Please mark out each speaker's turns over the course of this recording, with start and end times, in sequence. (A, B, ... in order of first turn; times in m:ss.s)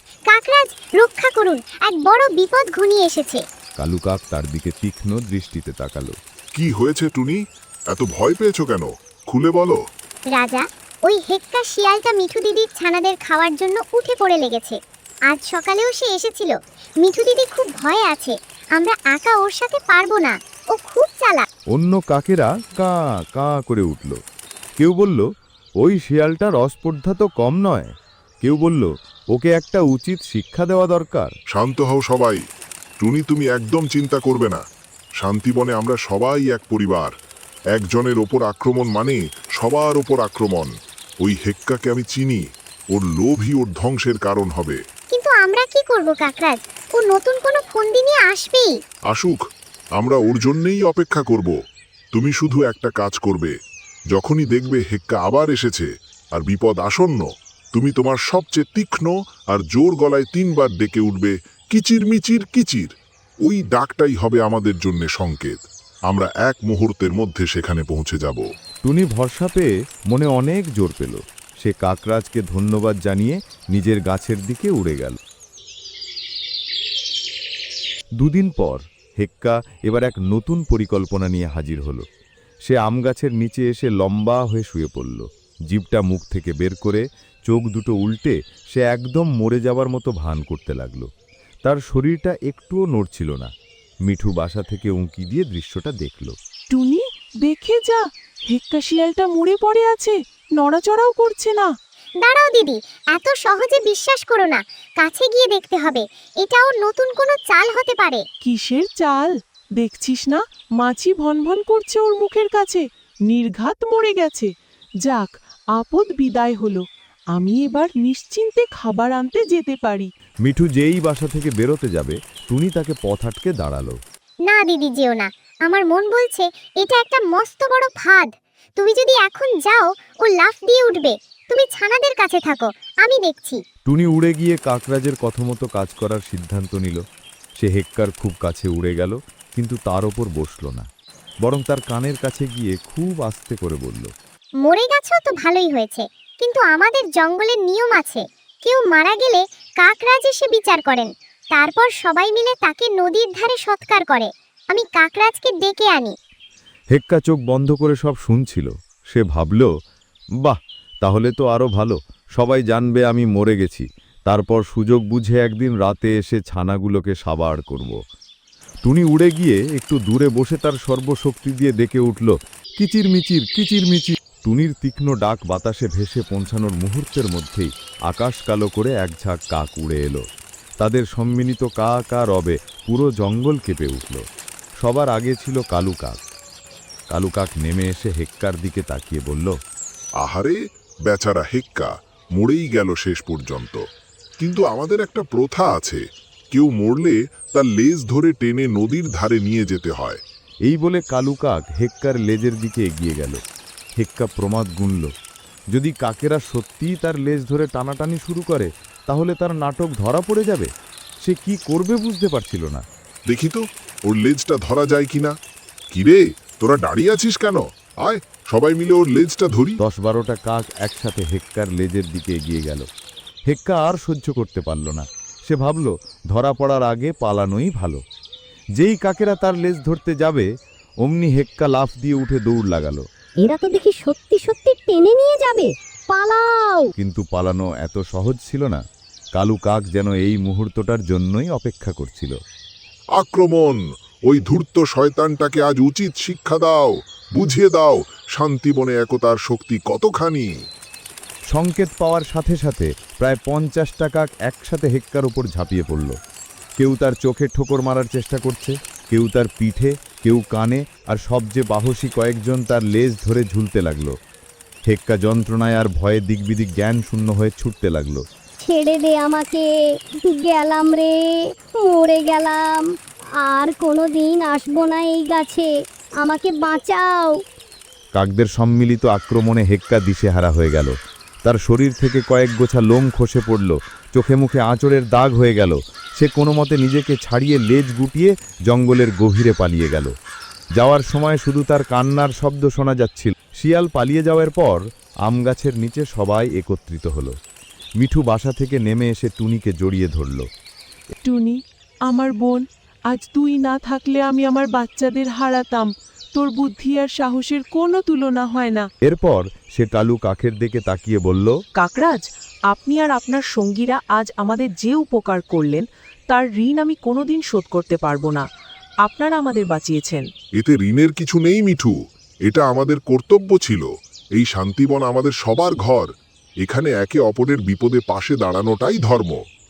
0:00.3-0:03.4 A
0:03.8-0:06.2 B
0:06.6-0:07.4 C
0:07.9-0:09.8 C
0:10.3-0:21.5 A
0:21.7-0:24.2 B
0:24.8-0:25.2 B
0:25.8-0:31.4 B
0:31.5-0:32.4 C
0:33.0-0:34.6 C
0:35.2-0:37.1 C
0:37.7-0:40.7 C
0:41.2-0:42.4 C
0:42.9-0:44.8 C
0:45.1-0:48.7 A
0:49.1-0:49.4 C
0:50.0-0:51.5 C
0:52.1-0:53.5 C
0:54.1-1:02.9 C
1:03.4-1:08.4 C
1:08.8-1:15.2 B
1:18.2-1:22.0 B
1:22.6-1:31.1 B
1:31.6-1:33.5 B
1:34.0-1:36.4 B
1:36.7-1:41.7 D
1:42.2-1:48.2 A
1:48.4-1:54.5 D
1:55.0-2:00.1 D
2:00.4-2:04.0 B
2:04.4-2:13.6 A
2:13.9-2:17.0 B
2:17.6-2:20.9 B
2:21.4-2:24.1 B
2:24.6-2:36.1 A
2:36.9-2:39.7 B
2:40.4-2:48.0 B
2:48.8-3:00.2 B
3:00.8-3:04.2 B
3:04.8-3:06.2 B
3:07.1-3:09.5 B
3:10.2-3:10.6 C
3:11.1-3:13.8 C
3:14.4-3:16.0 C
3:16.5-3:20.2 C
3:20.7-3:23.4 B
3:24.0-3:25.1 B
3:25.7-3:32.8 B
3:33.3-3:35.3 C
3:35.9-3:39.8 C
3:39.8-3:42.9 B
3:43.5-3:48.0 B
3:48.8-3:50.5 B
3:51.0-3:53.0 B
3:53.4-3:56.9 E
3:57.0-3:58.8 B
3:59.4-4:02.4 B
4:03.2-4:10.5 C
4:11.5-4:16.1 B
4:16.8-4:24.1 B
4:24.9-4:28.2 B
4:28.6-4:29.6 E
4:30.2-4:31.2 E
4:31.8-4:32.9 E
4:33.4-4:35.7 E
4:36.2-4:37.4 E
4:38.1-4:40.9 B
4:41.4-4:50.1 B
4:50.8-4:57.4 B
4:58.0-5:00.5 B
5:01.2-5:08.9 D
5:09.0-5:11.6 B
5:11.8-5:18.5 D
5:19.0-5:20.3 D
5:20.6-5:22.0 C
5:22.5-5:23.9 C
5:24.4-5:26.1 C
5:26.6-5:29.4 C